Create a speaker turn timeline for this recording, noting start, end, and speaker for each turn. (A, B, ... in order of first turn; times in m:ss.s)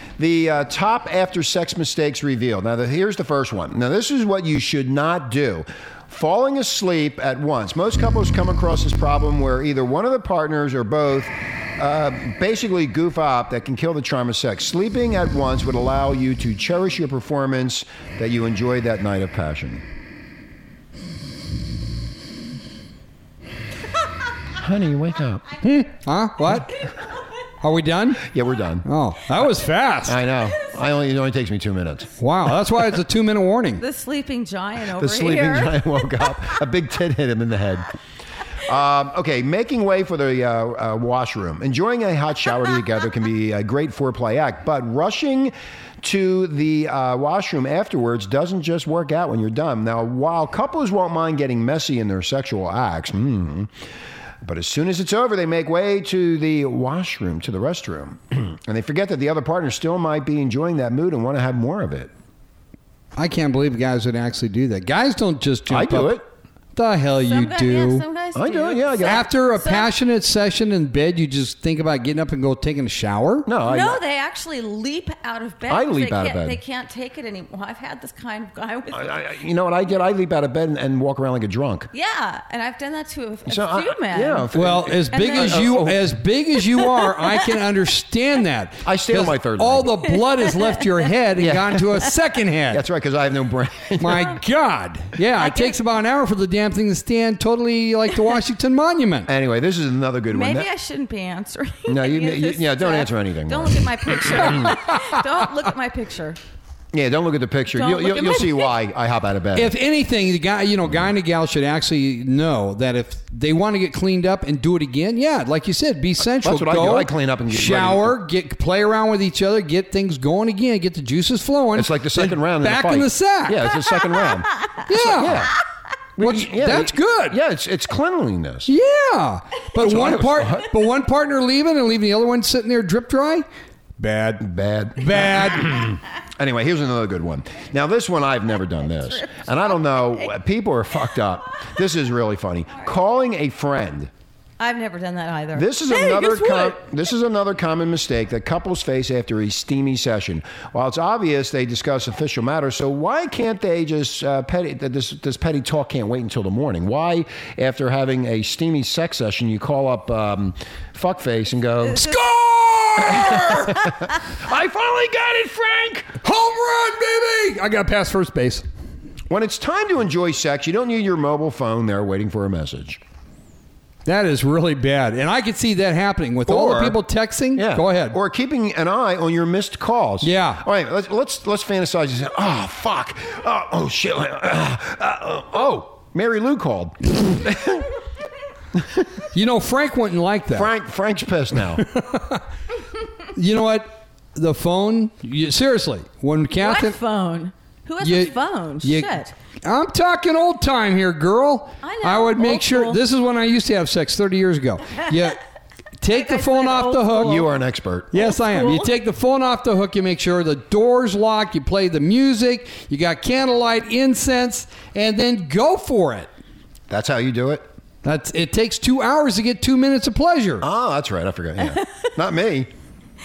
0:00.2-0:19.8 A
0:24.5-0:25.4 A
0:25.6-0:26.9 B
0:27.6-0:28.2 B
0:28.2-0:28.8 A
0:28.8-0:30.2 B
0:30.0-0:32.1 A
0:32.2-0:33.8 B
0:33.8-0:36.2 C
0:34.9-0:37.9 A
0:38.6-0:53.7 A
0:54.4-1:02.1 A
1:03.2-1:06.2 B
1:05.7-1:06.2 A
1:06.7-1:08.0 B
1:07.2-1:09.9 C
1:08.3-1:09.2 A
1:09.0-1:13.5 B
1:13.4-1:14.0 A
1:13.6-1:19.1 C
1:15.7-1:16.6 A
1:18.9-1:21.9 A
1:21.9-1:24.5 C
1:23.5-1:26.1 A
1:24.5-1:32.8 B
1:25.1-1:25.8 C
1:26.8-1:27.5 C
1:28.8-1:29.9 A
1:30.4-1:30.8 C
1:31.4-1:32.0 A
1:32.7-1:34.4 A
1:34.0-1:39.3 B
1:35.4-1:35.8 C
1:39.3-1:40.7 A
1:40.3-1:46.4 C
1:41.9-1:44.7 A
1:44.5-1:45.0 B
1:46.9-1:49.7 A
1:47.7-1:48.7 C
1:49.5-2:03.7 B
1:56.4-1:58.2 A
2:01.7-2:05.5 A
2:04.9-2:05.5 B
2:06.2-2:08.7 A
2:06.2-2:07.4 B
2:08.7-2:13.4 B
2:09.8-2:10.7 A
2:14.0-2:15.9 B
2:14.4-2:24.1 A
2:19.1-2:19.9 C
2:24.6-2:26.8 C
2:25.5-2:42.2 A
2:41.9-2:43.9 B
2:43.0-2:46.2 A
2:46.2-2:48.6 B
2:49.3-2:53.0 A
2:54.0-2:58.2 B
2:56.5-2:57.0 A
2:57.6-3:08.0 A
3:00.2-3:00.6 B
3:08.7-3:09.1 A
3:09.3-3:10.7 B
3:10.5-3:11.8 A
3:11.8-3:12.4 B
3:13.3-3:17.0 B
3:16.5-3:19.3 C
3:18.0-3:25.4 B
3:21.8-3:23.0 C
3:26.0-3:27.5 B
3:26.1-3:27.5 C
3:27.2-3:28.3 A
3:28.1-3:36.3 B
3:28.2-3:28.9 C
3:36.9-3:37.7 A
3:38.0-3:40.6 B
3:40.6-3:42.7 A